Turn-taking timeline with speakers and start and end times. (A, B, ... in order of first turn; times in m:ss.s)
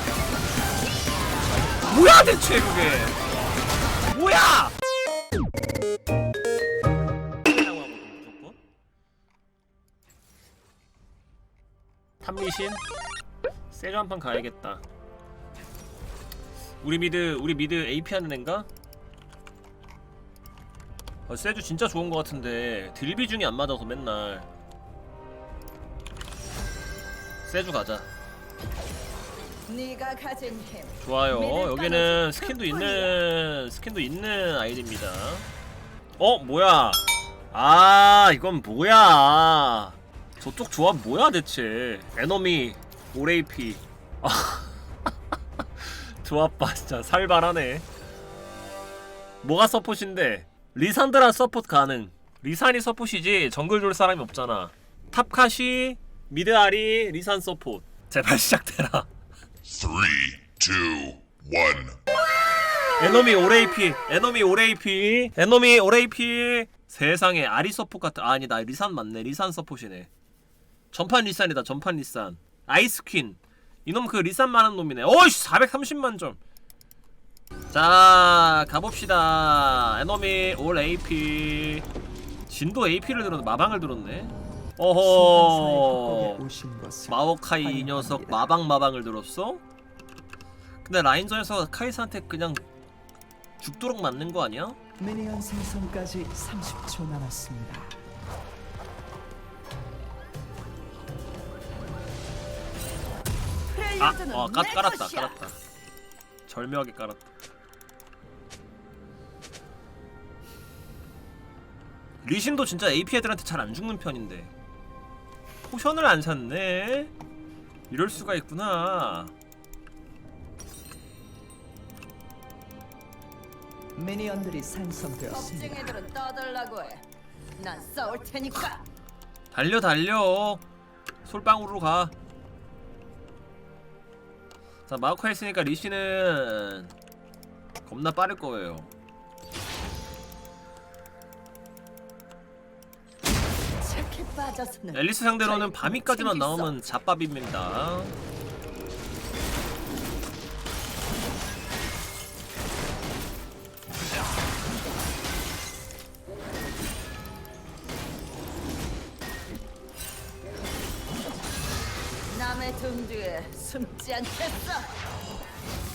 0:01.9-0:03.2 A
0:04.1-0:04.7 A
0:07.4-0:08.6 A
0:12.2-0:12.8 A
0:13.7-0:14.8 A
0:16.8-0:18.7 A
0:21.3-0:24.5 A
0:27.4-0:28.1 A
0:29.7-0:33.2 B
0:31.0-0:35.5 A
0:36.2-0:44.8 A
0:45.8-0:47.8 A
0:49.4-0:59.1 A
0:59.7-1:02.0 C
1:03.0-1:10.1 A
1:10.9-1:16.4 A
1:17.7-1:21.8 A
1:22.5-1:26.4 A
1:25.0-1:28.4 D
1:27.1-1:29.6 A
1:30.8-1:32.6 A
1:33.6-1:34.8 A
1:35.0-1:38.0 D
1:43.7-1:45.4 B
1:44.0-1:45.6 A
1:46.5-1:47.3 A
1:52.2-1:54.5 A
1:55.7-1:57.1 A
1:57.9-1:59.3 A
2:04.0-2:06.0 D
2:05.3-2:07.0 B
2:07.6-2:08.8 B
2:09.5-2:10.6 A
2:11.2-2:12.1 A
2:14.9-2:16.9 A
2:17.9-2:18.9 A
2:23.8-2:26.8 B
2:24.9-2:28.2 A
2:42.3-2:44.9 B